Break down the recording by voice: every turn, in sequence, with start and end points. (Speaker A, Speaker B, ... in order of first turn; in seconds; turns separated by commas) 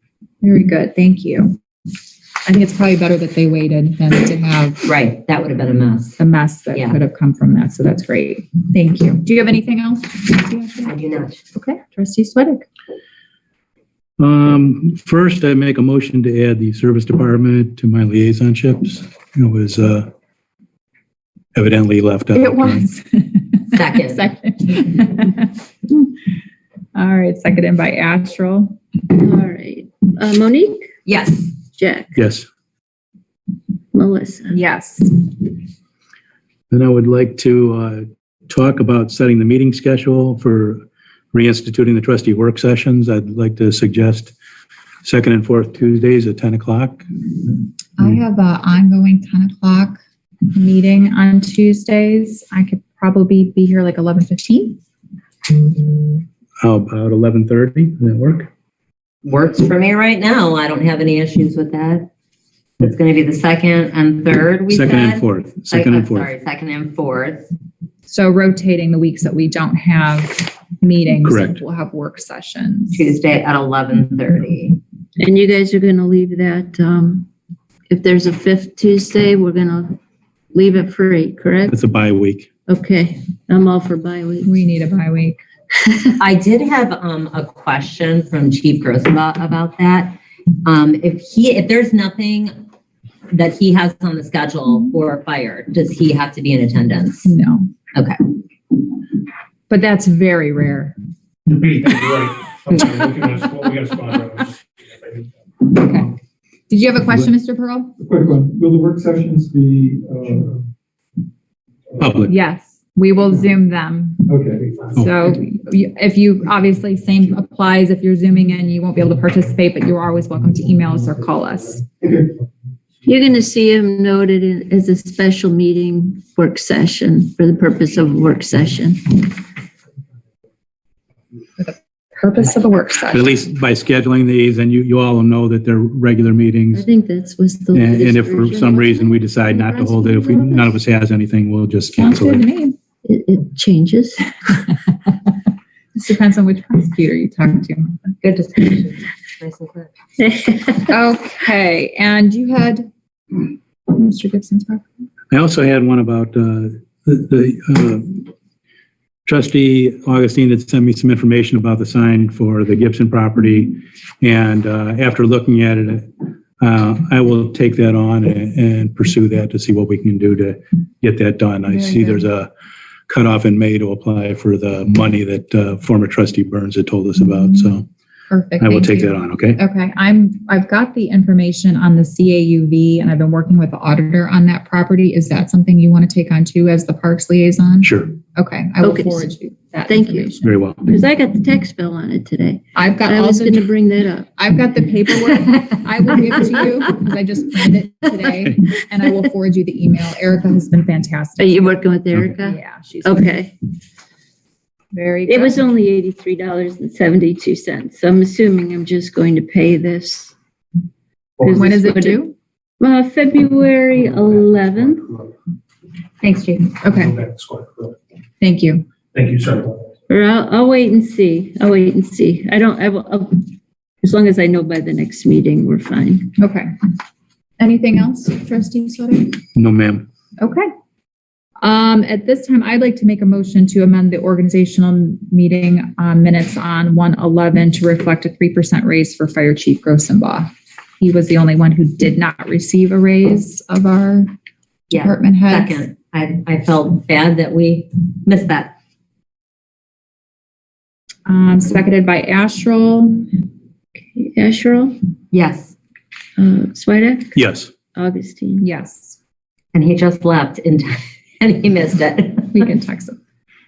Speaker A: 0.4-1.6, Speaker A: 2.5-4.9, Speaker B: 4.8-6.2, Speaker A: 6.2-10.9, Speaker B: 6.7-7.0, Speaker B: 10.8-11.4, Speaker A: 11.5-12.7, Speaker C: 14.2-20.1, Speaker C: 21.6-22.9, Speaker A: 22.4-26.1, Speaker B: 23.7-24.2, Speaker A: 26.9-28.8, Speaker D: 29.1-30.9, Speaker B: 31.1-31.5, Speaker D: 31.8-32.2, Speaker C: 32.2-32.5, Speaker D: 33.9-34.6, Speaker A: 34.5-35.2, Speaker C: 36.7-44.3, Speaker C: 45.0-47.6, Speaker A: 48.0-50.0, Speaker A: 50.5-54.8, Speaker C: 56.6-58.5, Speaker B: 59.2-62.1, Speaker B: 62.8-67.5, Speaker C: 64.7-66.3, Speaker A: 68.1-73.1, Speaker C: 71.2-71.6, Speaker B: 72.9-74.8, Speaker D: 75.2-77.3, Speaker D: 77.9-80.0, Speaker D: 80.5-81.8, Speaker C: 81.7-82.5, Speaker D: 82.7-84.6, Speaker A: 84.5-85.4, Speaker B: 86.2-92.5, Speaker B: 93.3-97.3, Speaker A: 97.2-97.7, Speaker A: 99.7-101.0, Speaker E: 101.5-105.2, Speaker A: 105.6-106.1, Speaker A: 106.7-108.0, Speaker F: 108.0-110.6, Speaker C: 112.0-112.3, Speaker A: 112.3-114.3, Speaker F: 114.3-114.9, Speaker A: 114.9-121.9, Speaker D: 123.0-129.3, Speaker A: 131.6-133.3, Speaker C: 133.1-136.9, Speaker D: 136.7-140.7, Speaker C: 137.7-142.4, Speaker A: 142.0-142.8, Speaker D: 143.0-144.6, Speaker A: 145.9-148.1, Speaker B: 148.2-149.9, Speaker D: 150.2-150.8, Speaker A: 150.8-155.0, Speaker C: 155.3-158.3, Speaker C: 159.3-166.1, Speaker C: 166.6-172.5, Speaker C: 173.1-177.9, Speaker A: 178.3-190.5, Speaker C: 178.6-179.6, Speaker C: 187.8-188.1, Speaker D: 188.8-189.3, Speaker D: 189.9-190.3, Speaker C: 190.4-190.8, Speaker D: 190.8-194.3, Speaker A: 192.8-193.7, Speaker A: 194.3-201.8, Speaker D: 201.4-203.5, Speaker A: 202.4-203.3, Speaker A: 204.9-205.6, Speaker D: 205.3-210.3, Speaker D: 211.4-212.2, Speaker A: 211.5-212.3, Speaker D: 212.8-215.2, Speaker A: 216.2-217.2, Speaker E: 216.9-217.9, Speaker A: 218.4-218.8, Speaker E: 219.2-219.8, Speaker D: 220.1-223.5, Speaker D: 224.0-226.3, Speaker A: 226.4-226.7, Speaker A: 227.6-229.4, Speaker C: 229.6-230.1, Speaker A: 230.4-230.7, Speaker A: 231.6-244.3, Speaker B: 244.9-248.7, Speaker A: 244.9-245.9, Speaker A: 251.3-253.3, Speaker D: 254.1-255.0, Speaker B: 255.3-255.8, Speaker D: 256.4-257.4, Speaker C: 257.4-257.7, Speaker D: 257.9-258.6, Speaker A: 258.6-259.2, Speaker B: 259.7-262.6, Speaker A: 262.5-263.2